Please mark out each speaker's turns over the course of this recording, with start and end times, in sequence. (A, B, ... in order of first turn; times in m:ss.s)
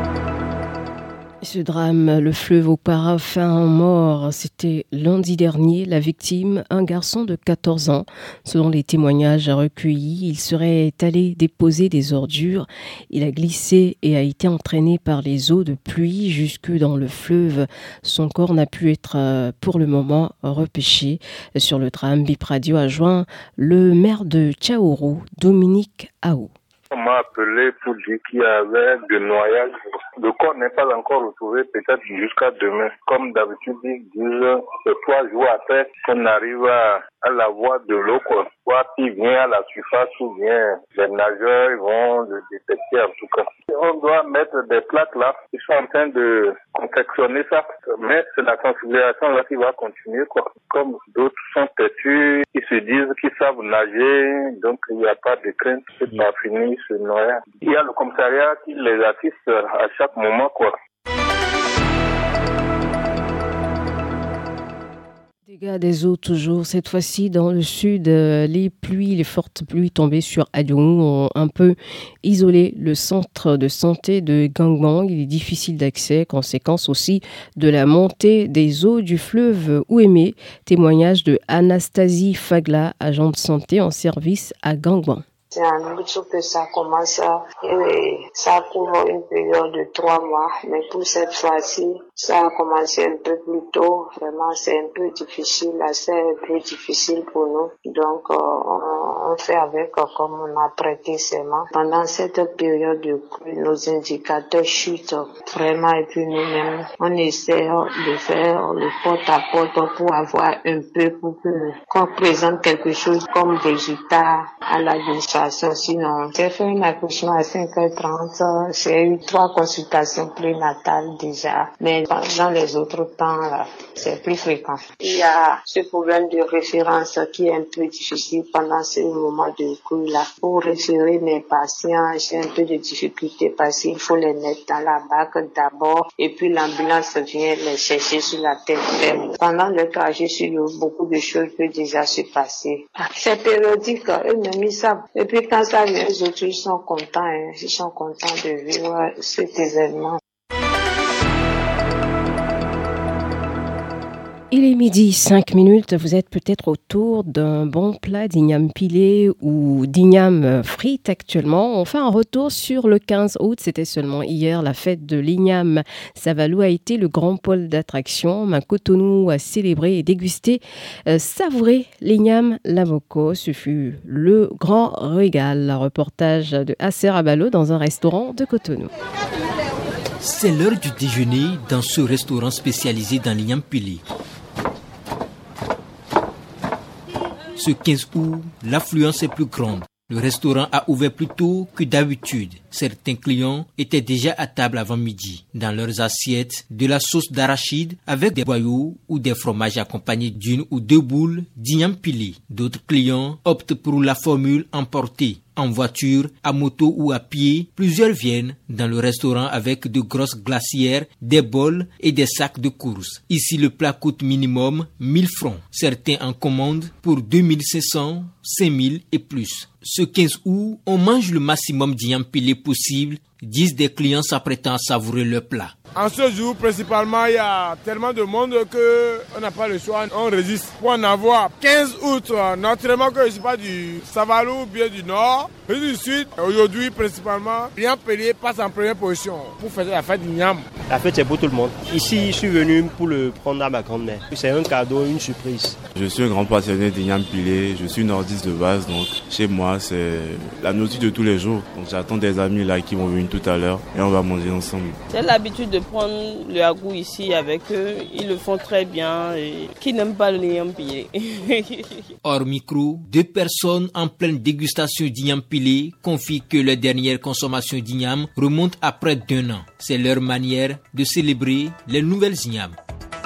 0:01.4-0:26.5 A
0:26.9-0:29.7 B
0:30.2-1:00.7 B
1:05.4-1:25.2 A
1:25.5-2:30.2 C
2:34.5-2:58.9 A
3:00.2-3:04.0 D
3:07.6-3:45.7 D
3:46.0-4:00.6 E
4:00.9-4:05.8 F
4:06.0-4:15.0 G
4:15.1-4:22.1 H
4:22.2-4:32.8 D